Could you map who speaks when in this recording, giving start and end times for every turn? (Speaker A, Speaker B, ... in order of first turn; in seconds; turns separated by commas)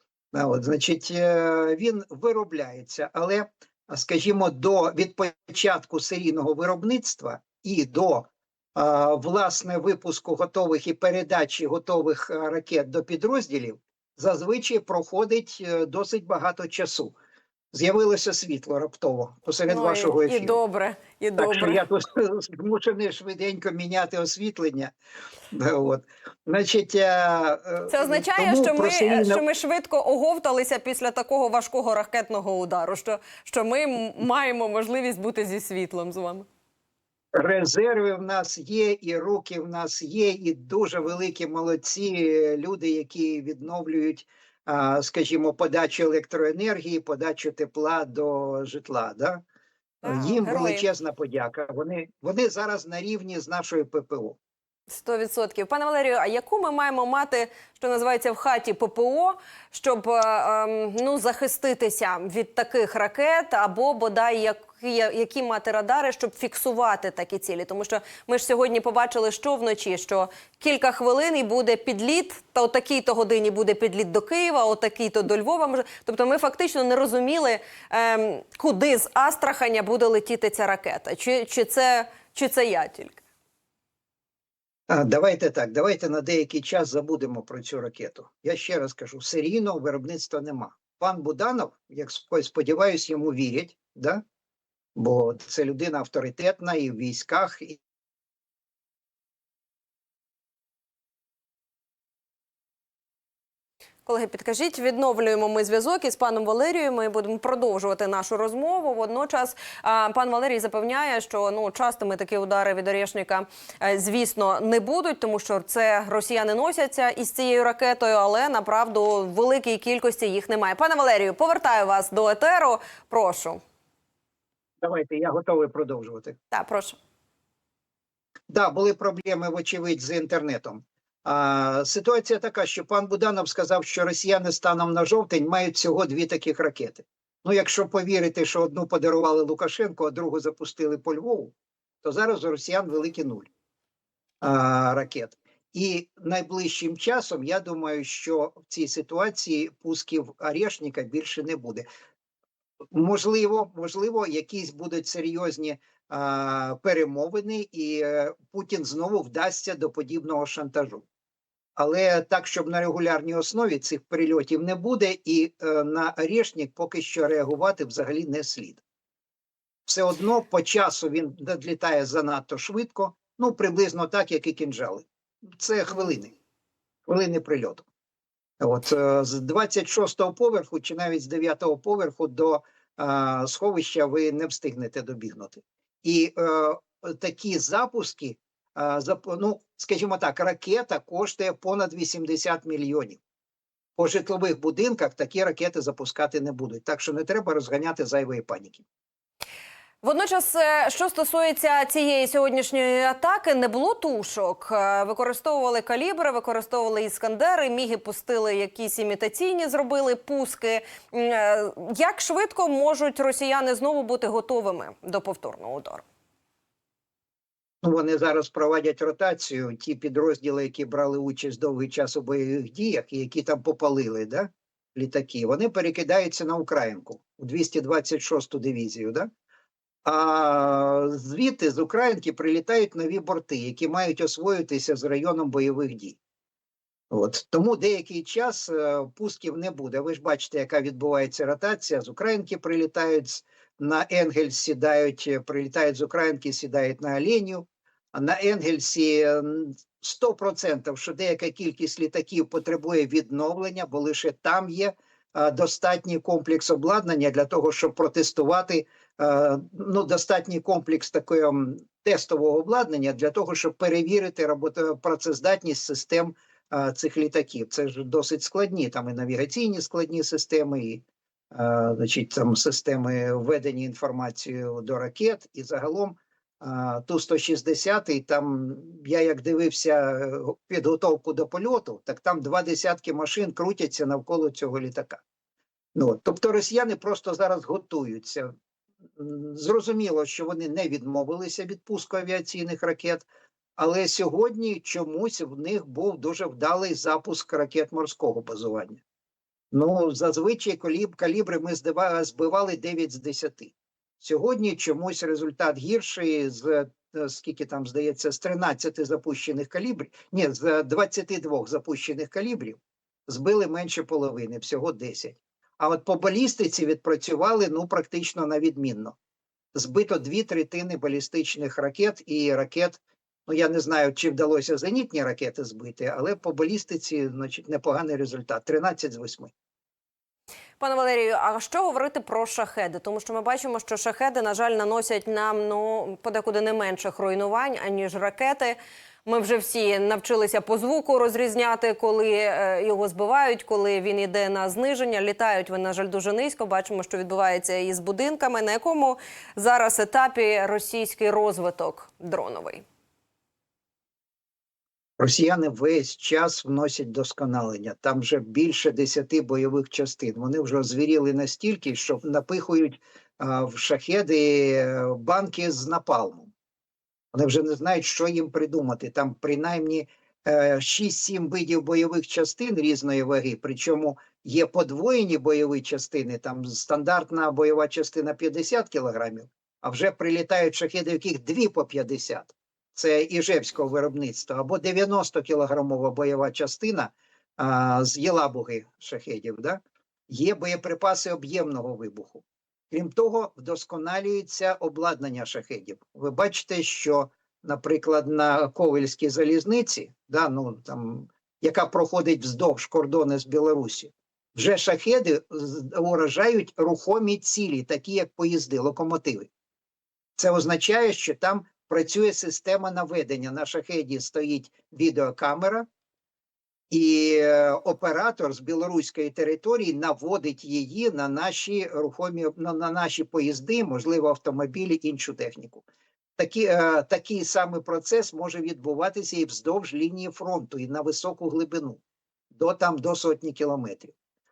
Speaker A: 0.3-17.1, Speaker A: 17.7-20.6, Speaker B: 19.7-21.8, Speaker A: 21.4-24.9, Speaker A: 25.5-29.4, Speaker B: 27.9-36.5, Speaker A: 37.4-49.4, Speaker B: 50.0-50.9, Speaker A: 50.0-54.4, Speaker B: 54.9-83.2, Speaker A: 84.9-94.2, Speaker A: 95.0-97.8, Speaker B: 104.0-123.6, Speaker A: 124.8-126.4, Speaker B: 126.5-127.0, Speaker A: 128.5-143.5, Speaker A: 144.4-151.8, Speaker A: 152.9-161.1, Speaker A: 161.8-168.8, Speaker A: 169.9-175.1, Speaker A: 175.6-176.3, Speaker A: 177.1-177.8, Speaker A: 178.6-193.2, Speaker A: 194.0-198.8, Speaker B: 200.0-216.0, Speaker A: 217.8-229.3, Speaker A: 230.0-236.2, Speaker A: 237.1-285.2, Speaker A: 285.9-288.5, Speaker A: 289.1-293.2, Speaker A: 293.8-299.0, Speaker A: 299.7-319.1, Speaker A: 319.7-329.5, Speaker B: 330.8-352.8, Speaker A: 355.2-366.5, Speaker A: 367.3-409.5, Speaker A: 410.4-415.9, Speaker A: 416.9-425.8, Speaker A: 426.4-432.0, Speaker A: 432.5-434.1